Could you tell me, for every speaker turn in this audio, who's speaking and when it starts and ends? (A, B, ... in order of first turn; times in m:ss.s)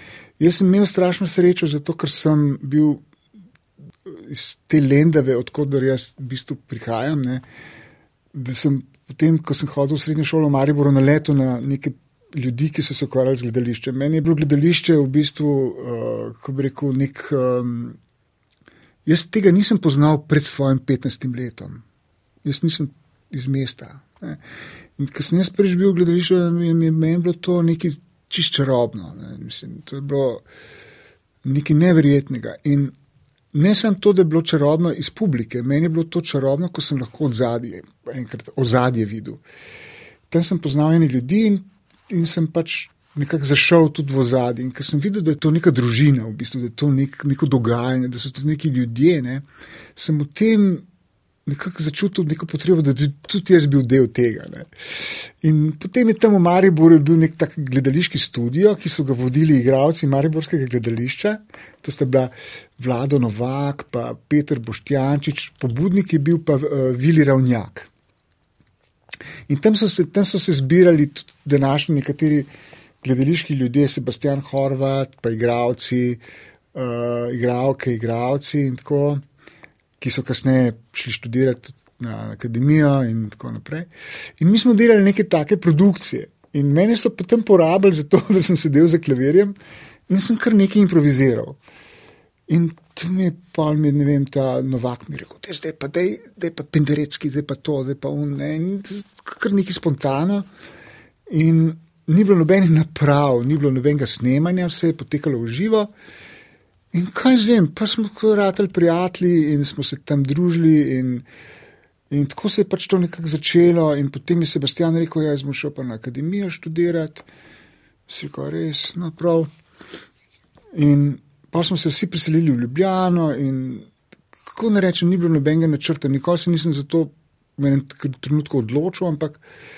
0:00.4-0:03.0 A
0:04.1-0:07.4 A
0:08.3-0:18.0 A
0:19.1-0:21.8 A
0:22.4-0:24.4 A
0:25.0-0:30.4 A
0:31.4-0:32.9 A
0:33.5-0:39.4 A
0:40.3-0:49.4 A
0:50.0-0:50.9 A
0:51.5-1:07.9 A
1:09.5-1:12.5 A
1:13.0-1:16.2 A
1:16.7-1:19.2 A
1:20.0-1:29.6 A
1:30.1-1:31.6 A
1:32.5-1:40.5 A
1:41.3-1:45.9 A
1:46.9-1:51.3 A
1:52.1-1:57.3 A
1:58.1-1:59.5 A
2:00.8-2:03.9 A
2:04.5-2:09.4 A